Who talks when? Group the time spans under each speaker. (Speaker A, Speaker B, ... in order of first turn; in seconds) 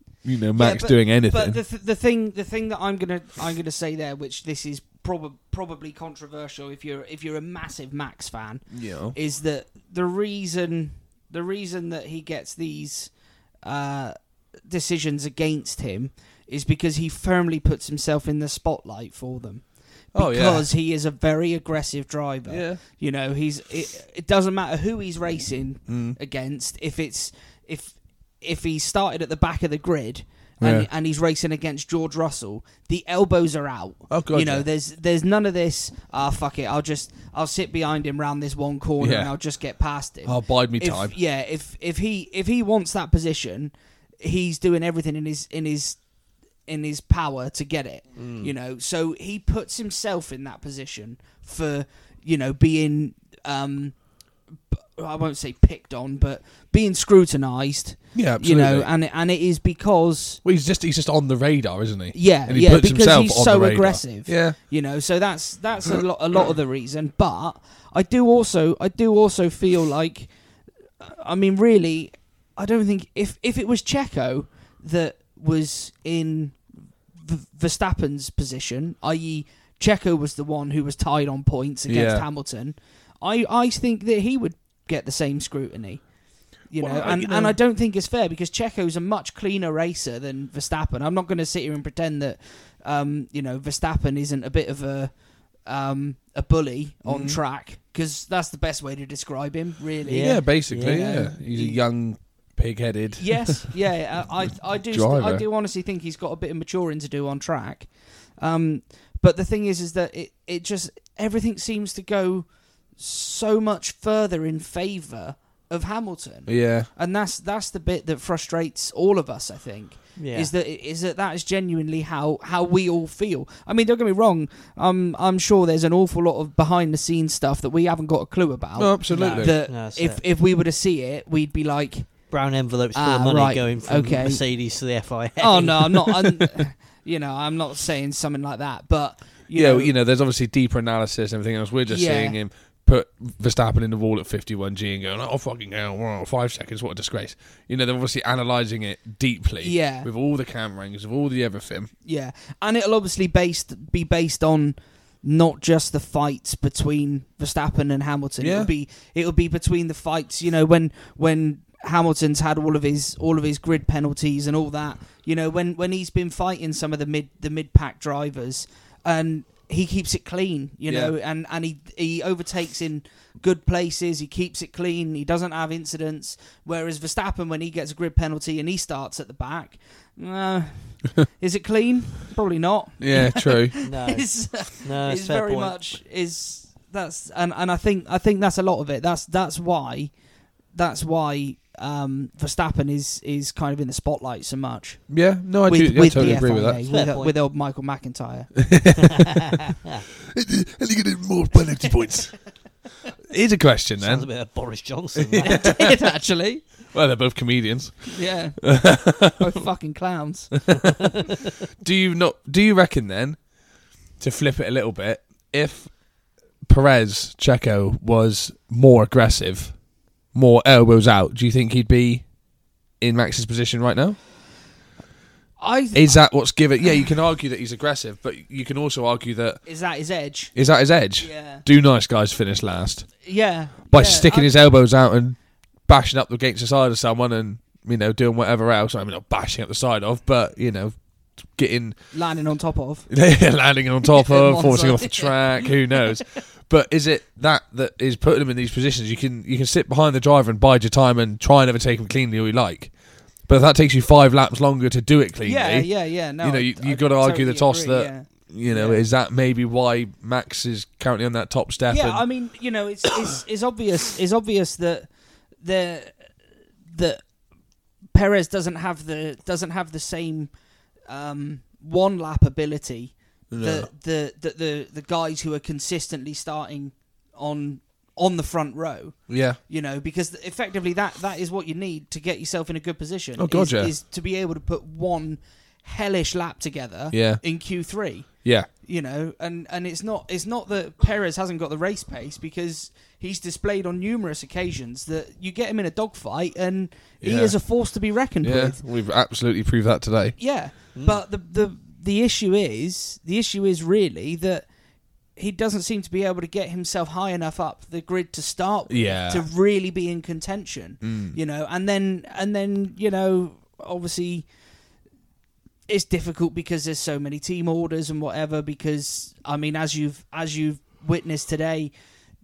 Speaker A: 0.2-1.6, 8.7-9.2, 20.1-20.7, 22.5-22.8, 25.9-26.2, 30.6-30.9, 34.1-34.7, 39.0-39.3, 40.2-41.1, 58.1-58.9, 60.4-64.5, 81.9-82.2, 86.8-87.6, 97.0-97.4, 100.1-103.8, 104.5-105.5, 116.5-116.9, 128.8-129.6, 139.5-151.9, 158.4-158.7, 170.9-171.1, 183.0-183.8, 195.1-196.8, 198.6-199.6, 200.3-202.4, 203.2-204.3, 205.2-206.0, 206.9-209.5, 210.7-211.1, 211.8-213.4, 214.2-215.9, 216.7-219.8, 220.3-222.2, 223.0-224.2, 225.9-229.6, 230.5-233.1, 233.9-241.9, 243.1-252.9, 253.5-262.2, 273.5-273.9, 279.3-279.6, 283.4-283.9, 287.1-287.4, 297.2-297.6, 298.4-300.4, 308.9-309.4, 311.0-311.4
Speaker B: 0.6-46.1, 46.7-54.1, 54.7-60.4, 62.1-70.3, 71.0-101.8, 103.2-132.2, 132.9-134.4, 135.4-139.9, 141.9-142.4, 149.6-150.1, 152.0-190.1, 190.7-195.1, 195.6-198.5, 205.4-206.6, 208.1-210.9, 225.6-226.3, 229.7-230.5, 231.2-231.6, 233.2-234.6, 242.1-243.1, 244.0-245.7, 255.4-259.0, 261.9-265.1, 265.6-266.3, 266.9-267.3, 268.1-270.5, 271.1-298.8, 300.4-304.7, 305.3-314.5, 315.9-321.9
Speaker C: 48.1-48.5, 100.0-101.1, 120.2-120.5, 129.1-130.2, 132.3-136.5, 183.8-185.9, 196.8-197.3, 199.1-200.0, 204.0-205.8, 300.9-301.2